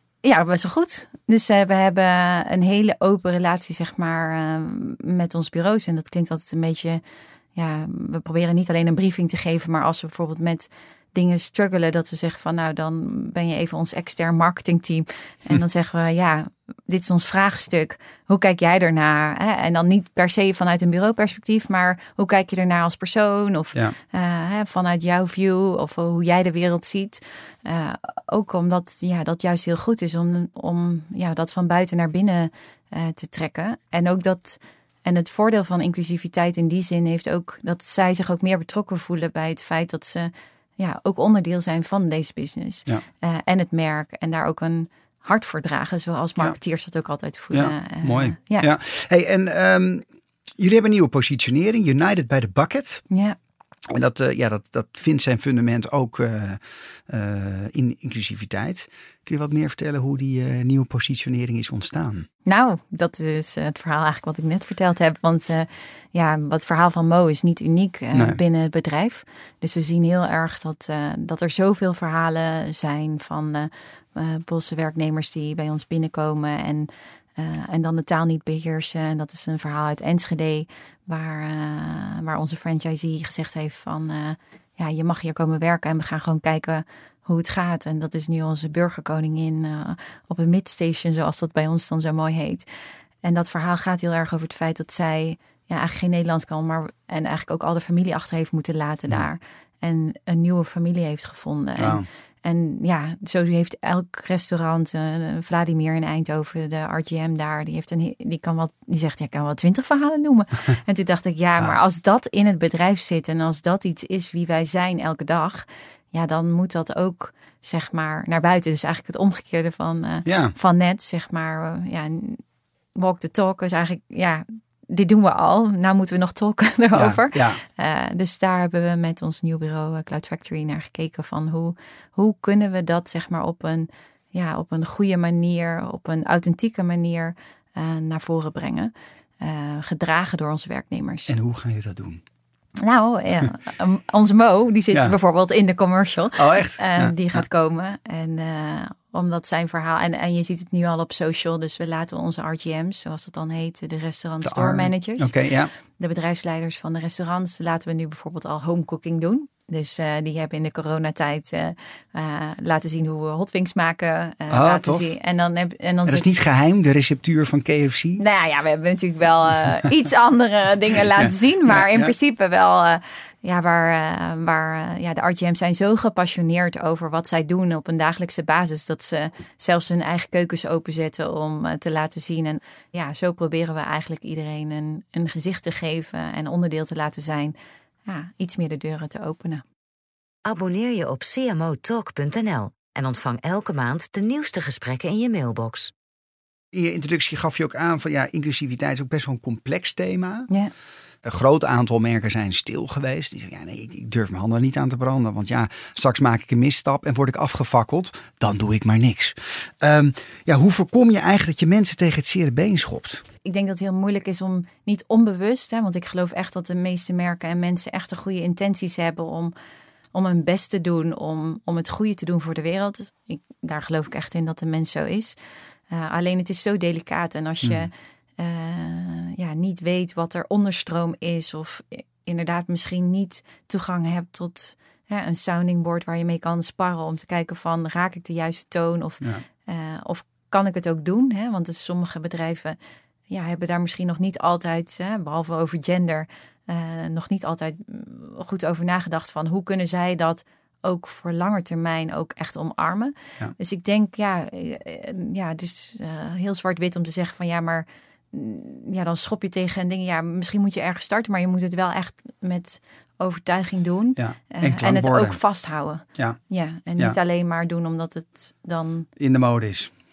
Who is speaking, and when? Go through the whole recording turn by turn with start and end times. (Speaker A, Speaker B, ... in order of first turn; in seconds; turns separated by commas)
Speaker A: 0.2-7.0, Speaker A: 7.5-48.7, Speaker B: 47.5-50.0, Speaker B: 50.6-53.0, Speaker A: 53.1-53.4, Speaker B: 53.9-62.3, Speaker A: 62.4-92.6, Speaker B: 68.1-68.4, Speaker A: 93.2-122.4, Speaker B: 101.8-102.1, Speaker B: 120.2-120.5, Speaker A: 122.9-141.3, Speaker B: 126.9-127.6, Speaker B: 141.3-142.2, Speaker A: 142.8-155.3, Speaker B: 146.3-147.4, Speaker B: 154.4-155.7, Speaker A: 156.0-166.4, Speaker B: 164.5-165.1, Speaker B: 166.1-168.2, Speaker A: 168.2-187.5, Speaker B: 171.2-172.1, Speaker A: 188.1-189.6, Speaker C: 190.4-195.9, Speaker B: 196.7-200.5, Speaker B: 201.2-213.2, Speaker A: 213.4-219.5, Speaker A: 220.1-225.3, Speaker A: 225.9-242.8, Speaker B: 227.6-227.9, Speaker A: 243.3-269.1, Speaker B: 264.2-265.4, Speaker B: 269.2-269.9